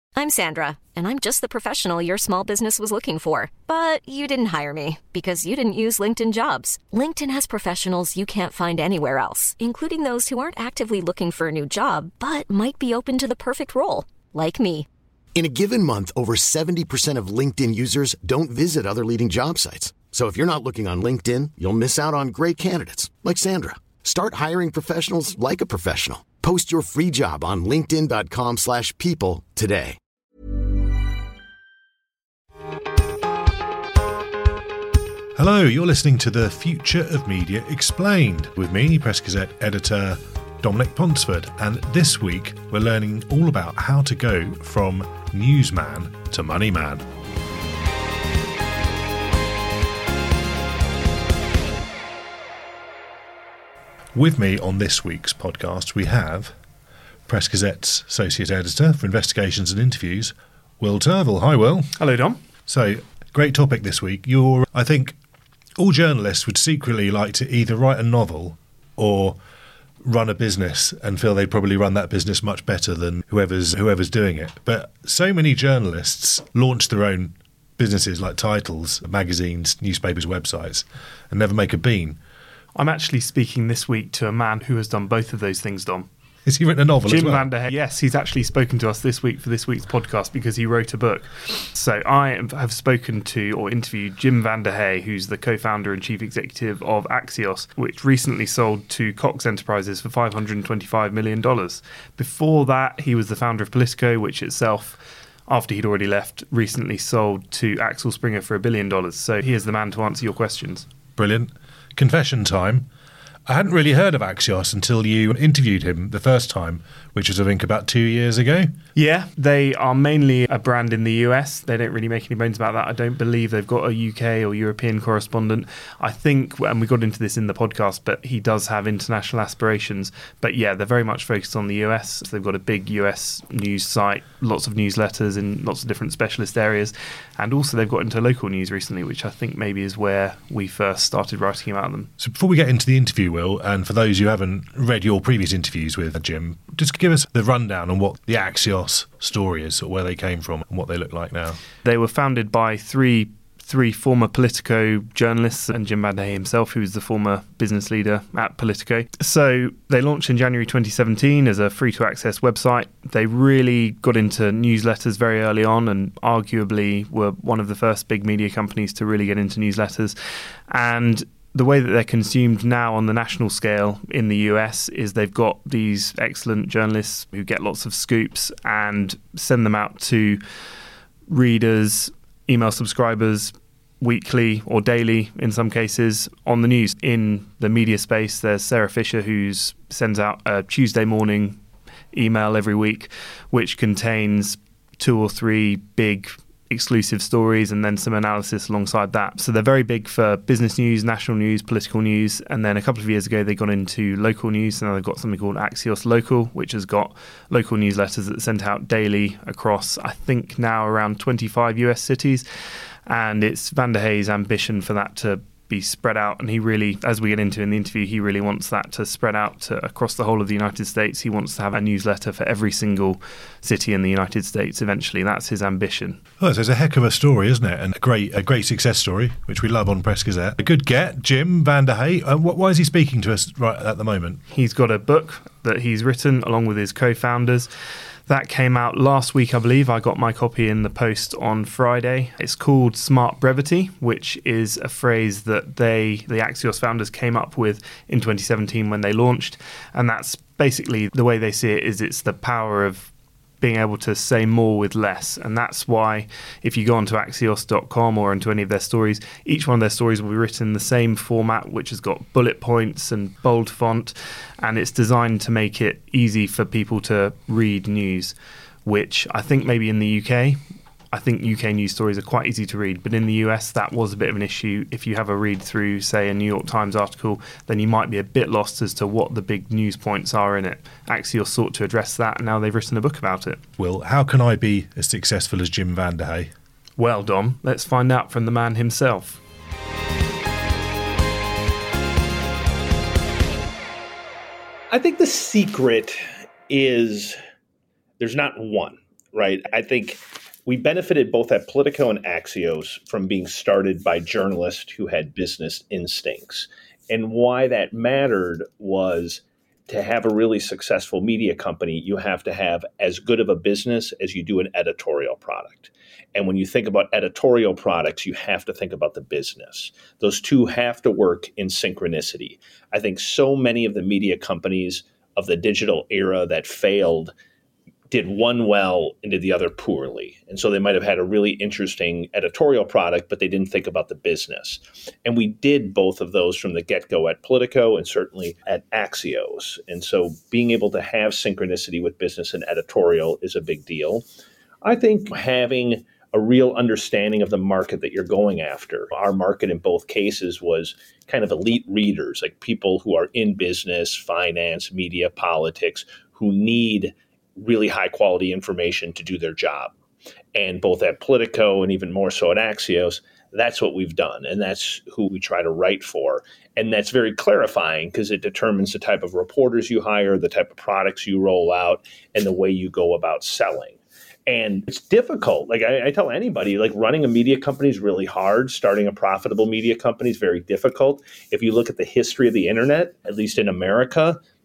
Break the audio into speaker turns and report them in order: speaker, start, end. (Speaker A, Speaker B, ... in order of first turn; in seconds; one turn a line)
Speaker A: 0.1-14.9
Speaker B: 15.3-30.0
Speaker C: 35.3-47.1
Speaker C: 54.1-56.5
Speaker C: 57.3-61.9
Speaker D: 62.0-62.4
Speaker C: 62.7-65.2
Speaker C: 65.8-69.4
Speaker C: 70.0-82.2
Speaker D: 82.7-86.1
Speaker C: 86.4-87.5
Speaker D: 87.0-110.8
Speaker C: 111.2-112.9
Speaker C: 113.5-118.7
Speaker D: 118.9-142.1
Speaker C: 142.2-151.6
Speaker D: 151.8-170.2
Speaker D: 170.7-180.4
Speaker D: 181.3-191.6
Speaker D: 192.1-212.4
Speaker D: 213.1-226.2
Speaker C: 226.4-234.4
Speaker D: 234.5-237.7
Speaker D: 238.3-270.6
Speaker D: 271.1-283.6
Speaker C: 283.8-286.5
Speaker D: 287.0-289.4
Speaker E: 294.9-297.4
Speaker E: 298.2-327.3
Speaker E: 328.1-344.2
Speaker E: 344.8-359.9
Speaker E: 360.5-384.4